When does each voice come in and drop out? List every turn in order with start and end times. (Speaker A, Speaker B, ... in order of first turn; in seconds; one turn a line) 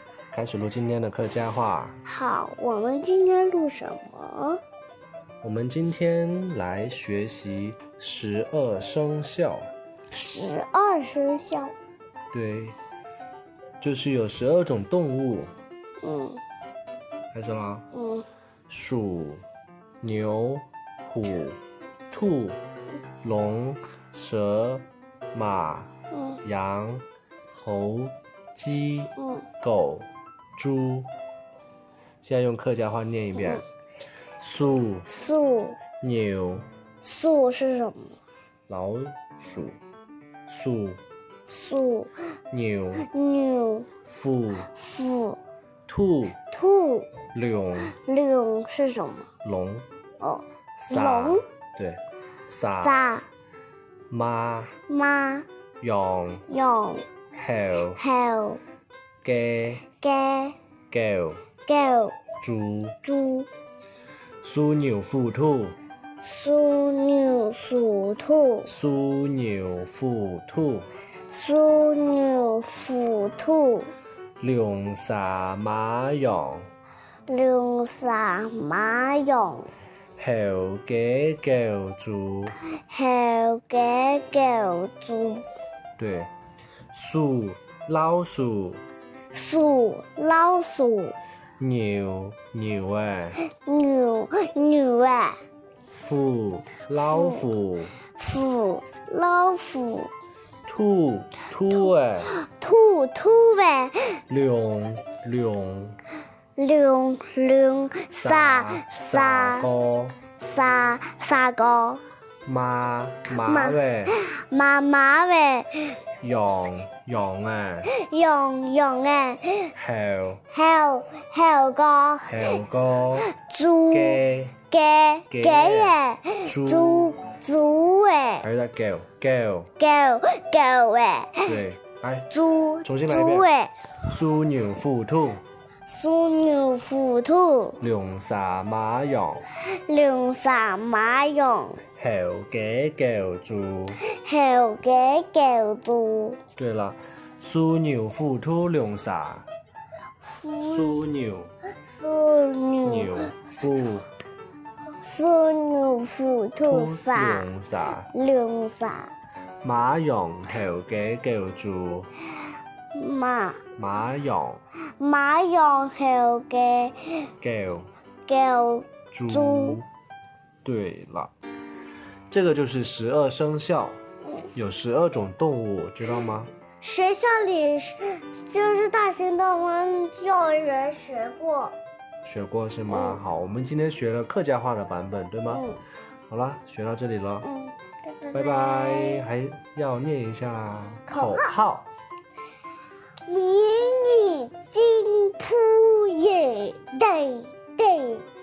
Speaker A: 0.3-2.0
Speaker B: 2.0-4.6
Speaker A: 5.4-9.7
Speaker B: 10.1-11.7
Speaker A: 12.3-12.8
Speaker A: 13.8-15.5
Speaker B: 16.0-16.4
Speaker A: 17.3-17.9
Speaker B: 17.9-18.2
Speaker A: 18.7-19.4
Speaker A: 20.0-22.6
Speaker A: 23.2-25.9
Speaker B: 26.1-26.4
Speaker A: 26.4-31.1
Speaker B: 29.2-29.4
Speaker A: 32.2-33.6
Speaker A: 34.4-35.1
Speaker B: 35.1-35.8
Speaker A: 36.0-36.6
Speaker B: 37.0-38.2
Speaker A: 38.7-39.8
Speaker A: 40.5-41.0
Speaker B: 41.5-42.1
Speaker A: 42.5-43.1
Speaker B: 43.0-43.9
Speaker A: 44.0-44.7
Speaker B: 44.7-45.4
Speaker A: 45.9-46.4
Speaker B: 46.5-47.2
Speaker A: 47.3-47.9
Speaker B: 47.8-49.3
Speaker A: 49.4-49.9
Speaker B: 50.2-51.4
Speaker A: 50.8-53.0
Speaker B: 52.7-53.3
Speaker A: 54.1-54.7
Speaker B: 54.8-55.5
Speaker A: 55.8-56.5
Speaker B: 56.5-57.0
Speaker A: 57.3-58.0
Speaker B: 58.0-58.6
Speaker A: 59.2-59.8
Speaker B: 59.9-60.5
Speaker A: 60.9-61.4
Speaker B: 61.6-62.2
Speaker A: 62.4-63.0
Speaker B: 63.0-63.5
Speaker A: 64.4-65.8
Speaker B: 66.2-68.7
Speaker A: 68.7-70.9
Speaker B: 71.3-73.9
Speaker A: 74.4-76.7
Speaker B: 77.3-79.7
Speaker A: 80.2-82.5
Speaker B: 82.8-85.5
Speaker A: 86.0-86.3
Speaker A: 86.9-88.8
Speaker B: 89.3-91.2
Speaker A: 91.6-93.4
Speaker B: 93.5-95.4
Speaker A: 95.9-98.0
Speaker B: 97.1-97.5
Speaker B: 98.1-100.1
Speaker A: 100.7-102.3
Speaker B: 102.3-104.2
Speaker A: 104.3-106.0
Speaker B: 106.5-109.7
Speaker A: 108.2-110.2
Speaker B: 110.4-112.0
Speaker A: 112.5-114.1
Speaker B: 113.3-116.0
Speaker A: 116.2-117.9
Speaker B: 117.9-119.7
Speaker A: 119.7-120.4
Speaker B: 120.5-122.6
Speaker A: 122.2-123.3
Speaker B: 123.1-128.5
Speaker A: 123.9-124.6
Speaker A: 125.3-127.2
Speaker A: 128.4-129.7
Speaker B: 129.8-131.6
Speaker A: 131.4-132.3
Speaker B: 132.3-133.7
Speaker A: 132.8-133.5
Speaker A: 134.0-135.4
Speaker B: 135.9-137.8
Speaker A: 137.8-139.4
Speaker B: 139.7-141.8
Speaker A: 142.0-144.0
Speaker B: 144.0-146.4
Speaker A: 146.6-149.5
Speaker B: 150.2-151.0
Speaker A: 150.6-151.5
Speaker B: 151.8-153.3
Speaker A: 152.8-154.1
Speaker B: 155.0-157.5
Speaker A: 156.6-158.1
Speaker B: 158.1-159.1
Speaker A: 159.6-162.1
Speaker B: 162.9-163.6
Speaker A: 163.8-164.6
Speaker B: 165.0-167.3
Speaker A: 167.4-167.9
Speaker B: 168.3-169.8
Speaker A: 169.1-169.9
Speaker A: 170.6-171.3
Speaker A: 172.3-174.0
Speaker A: 174.5-176.5
Speaker B: 176.8-181.7
Speaker A: 182.2-185.6
Speaker B: 182.9-183.2
Speaker B: 185.5-185.8
Speaker A: 186.3-187.5
Speaker B: 187.4-189.2
Speaker A: 188.3-191.9
Speaker B: 191.1-191.5
Speaker B: 193.2-198.2